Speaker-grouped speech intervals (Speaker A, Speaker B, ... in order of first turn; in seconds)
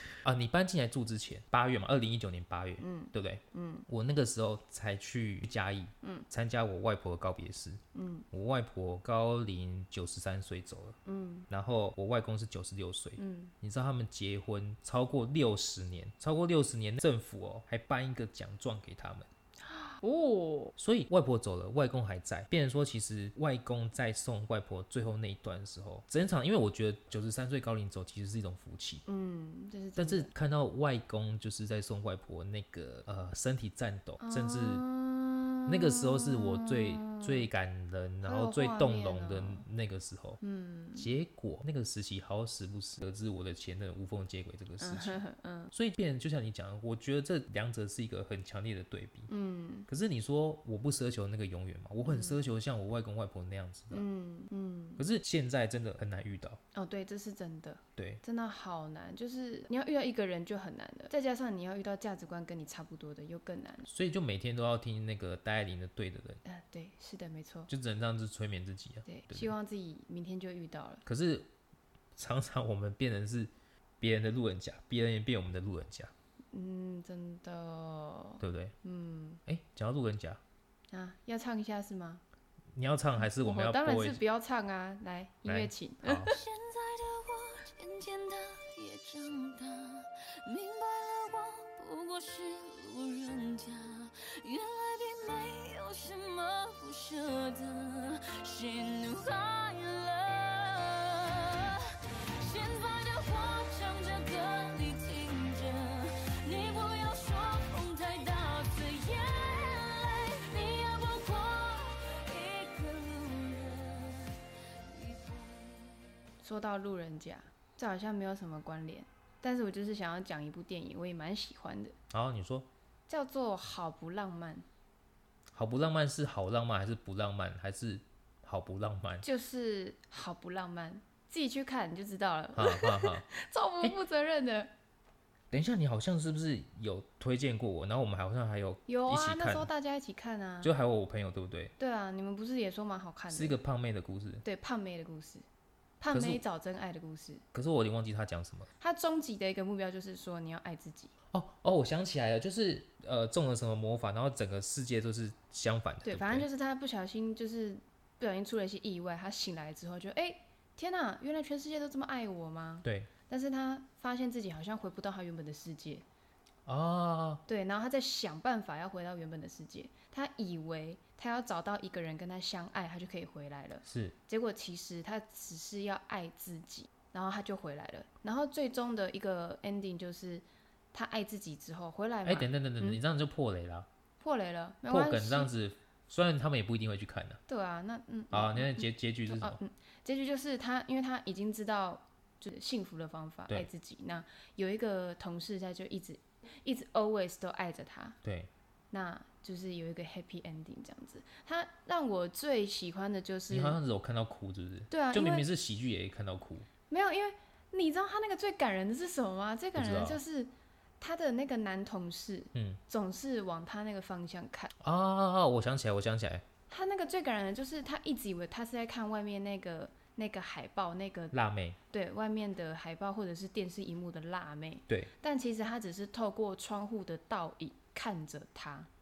Speaker A: 0.2-7.8, 8.3-11.0, 11.5-19.3, 20.8-29.0, 29.9-34.8, 35.6-40.4, 41.0-49.3, 49.9-54.0, 55.0-56.6, 58.0-58.2, 63.9-66.4, 67.7-69.5, 71.0-71.5, 72.2-76.1, 78.4-78.7, 79.5-80.4, 82.7-84.2, 85.5-86.3, 122.1-122.7, 125.5-129.2, 132.6-133.3, 135.5-139.7, 140.6-141.7, 143.3-144.4, 146.1-146.4, 147.5-148.7, 151.3-156.5, 162.8-163.1, 166.7-167.4, 173.8-174.2, 182.2-183.9, 184.9-187.4, 188.3-189.6, 198.2-198.5, 203.5-206.7, 209.7-210.2, 212.5-212.8, 214.8-216.4, 221.3-221.8
Speaker B: 2.8-3.9, 6.0-6.3, 7.9-8.2, 11.0-11.5, 13.2-13.5, 19.6-20.7, 29.1-30.3, 34.2-37.5, 38.2-39.6, 40.4-41.1, 44.8-45.7, 49.3-49.9, 52.0-52.4, 53.9-55.0, 56.7-63.9, 66.4-67.7, 69.0-71.0, 76.5-79.4, 80.9-82.2, 83.2-86.4, 116.4-122.0, 123.1-124.7, 129.2-134.7, 138.9-140.7, 141.8-143.6, 144.4-145.4, 146.0-147.4, 148.8-151.1, 156.0-166.0, 167.5-183.0, 184.2-185.5, 187.5-198.2, 198.9-203.8, 204.9-205.4, 206.9-214.7, 216.7-221.3, 221.9-228.9
Speaker C: 86.3-116.1